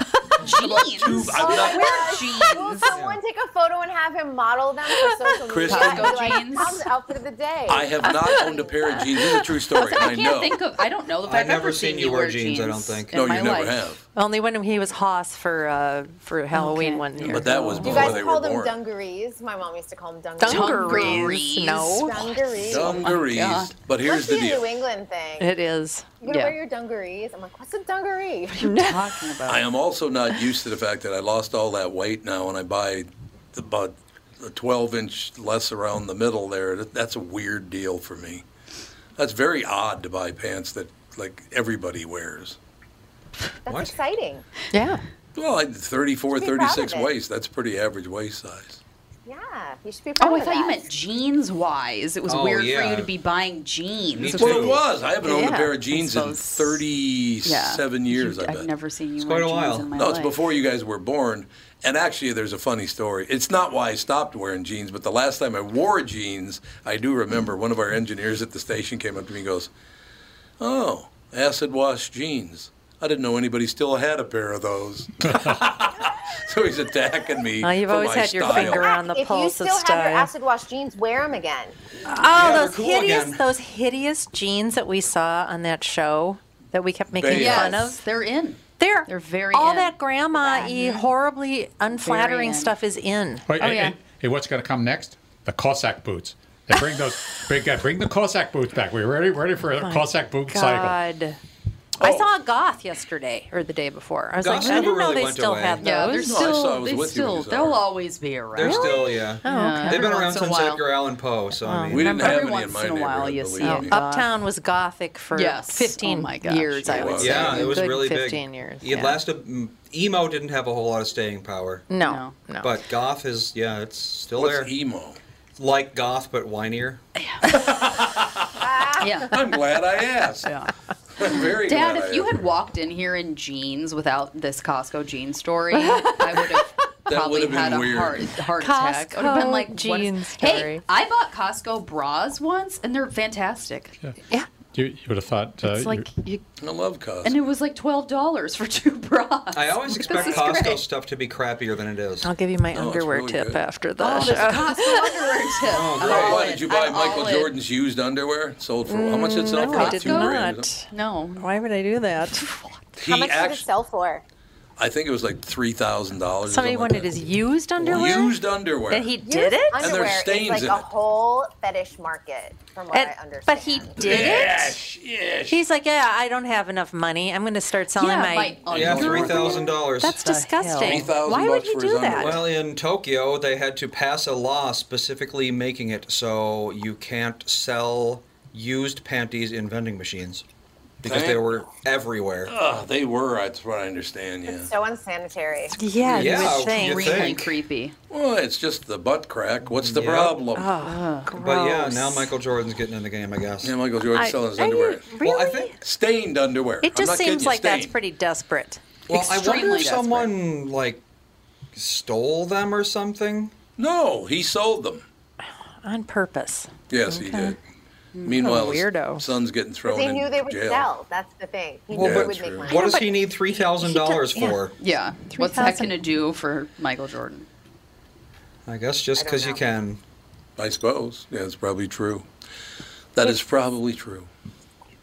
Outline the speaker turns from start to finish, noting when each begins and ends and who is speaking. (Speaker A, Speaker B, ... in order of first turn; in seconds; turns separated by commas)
Speaker A: 0.4-2.9, Speaker B: 0.5-2.0, Speaker C: 1.4-8.5, Speaker D: 2.9-3.2, Speaker B: 5.5-6.1, Speaker A: 5.7-6.8, Speaker B: 7.7-10.5, Speaker A: 9.8-13.8, Speaker D: 11.3-13.2, Speaker B: 13.1-14.0, Speaker E: 14.2-18.2, Speaker A: 16.5-17.9, Speaker B: 17.2-18.8, Speaker C: 17.8-23.1, Speaker E: 20.4-22.5, Speaker A: 20.4-22.0, Speaker B: 22.7-24.6, Speaker A: 22.8-23.7, Speaker C: 24.0-25.5, Speaker E: 25.4-26.1, Speaker C: 26.2-28.7, Speaker A: 26.3-26.6, Speaker A: 28.5-29.6, Speaker E: 28.6-29.1, Speaker B: 29.5-38.5, Speaker B: 39.2-42.6, Speaker C: 43.7-44.5, Speaker D: 43.7-43.9, Speaker E: 44.7-45.0, Speaker B: 45.4-48.8, Speaker C: 46.3-47.1, Speaker C: 49.3-50.9, Speaker A: 50.2-54.8, Speaker D: 52.3-53.1, Speaker D: 54.1-54.8, Speaker B: 54.4-58.7, Speaker E: 55.2-55.7, Speaker A: 55.9-56.8, Speaker A: 57.5-60.4, Speaker D: 59.2-59.9, Speaker B: 60.0-69.7, Speaker B: 70.6-78.9, Speaker E: 77.6-80.3, Speaker C: 78.5-81.8, Speaker E: 82.1-88.0, Speaker D: 82.3-83.4, Speaker B: 87.1-87.9, Speaker A: 87.3-91.0, Speaker E: 88.8-93.8, Speaker A: 92.0-92.8, Speaker F: 93.5-101.0, Speaker A: 93.6-94.0, Speaker E: 99.8-101.4, Speaker B: 102.0-102.3, Speaker E: 102.0-106.5, Speaker D: 104.4-105.9, Speaker A: 104.5-105.0, Speaker A: 105.8-110.8, Speaker B: 106.2-107.8, Speaker D: 108.5-112.2, Speaker E: 108.6-110.3, Speaker E: 111.6-112.4, Speaker B: 111.9-114.0, Speaker A: 112.0-114.3, Speaker E: 113.6-119.2, Speaker A: 115.3-117.8, Speaker B: 116.9-117.6, Speaker D: 117.2-121.9, Speaker E: 121.9-122.8, Speaker A: 122.0-122.4, Speaker D: 122.6-124.7, Speaker B: 124.4-125.2, Speaker D: 125.6-127.0, Speaker A: 127.2-127.6, Speaker B: 127.5-128.6, Speaker C: 128.6-129.3, Speaker A: 129.0-129.4, Speaker B: 129.3-130.5, Speaker A: 130.4-143.9, Speaker B: 131.2-132.4, Speaker E: 135.7-136.6, Speaker B: 137.1-138.2, Speaker E: 138.6-140.8, Speaker F: 144.7-146.1, Speaker A: 145.6-146.4, Speaker B: 146.6-147.4, Speaker A: 147.2-150.8, Speaker D: 149.5-152.3, Speaker E: 152.2-155.2, Speaker B: 152.7-153.6, Speaker A: 154.0-157.5, Speaker C: 154.9-155.3, Speaker D: 155.7-156.4, Speaker B: 156.0-160.7, Speaker E: 158.9-162.5, Speaker A: 159.6-161.6, Speaker A: 162.3-162.8, Speaker B: 163.0-163.7, Speaker C: 163.1-164.2, Speaker B: 164.8-167.2, Speaker E: 166.5-168.4, Speaker B: 167.8-169.1, Speaker E: 168.9-169.9, Speaker C: 169.2-174.5, Speaker B: 169.8-170.9, Speaker E: 172.9-174.8, Speaker B: 174.0-175.6, Speaker E: 175.5-182.5, Speaker A: 178.0-181.1, Speaker D: 178.7-180.2, Speaker B: 178.7-179.2, Speaker B: 180.8-182.5, Speaker D: 182.2-190.4, Speaker D: 191.0-192.5, Speaker B: 191.0-191.5, Speaker B: 192.4-194.7, Speaker C: 194.5-195.8, Speaker E: 195.7-197.5, Speaker A: 196.0-197.9, Speaker D: 196.1-197.5, Speaker B: 198.1-200.7, Speaker D: 199.7-200.4, Speaker E: 200.5-202.3, Speaker A: 200.8-201.4, Speaker D: 201.4-203.8, Speaker B: 203.6-205.1, Speaker E: 204.1-205.8, Speaker D: 205.2-205.7, Speaker B: 205.8-207.9, Speaker E: 206.8-208.8, Speaker D: 209.1-211.0, Speaker A: 209.1-210.3, Speaker D: 211.7-213.5, Speaker B: 213.8-215.1, Speaker E: 215.8-217.6, Speaker B: 216.9-217.6, Speaker A: 218.2-218.4, Speaker B: 218.2-220.9, Speaker E: 218.3-219.3, Speaker C: 219.8-223.1, Speaker B: 221.9-222.7, Speaker D: 221.9-224.8, Speaker E: 222.7-223.2, Speaker E: 223.8-224.6, Speaker A: 224.8-227.5, Speaker E: 225.3-225.9, Speaker D: 228.7-230.0, Speaker C: 229.2-229.6, Speaker B: 230.6-232.3, Speaker B: 233.2-234.3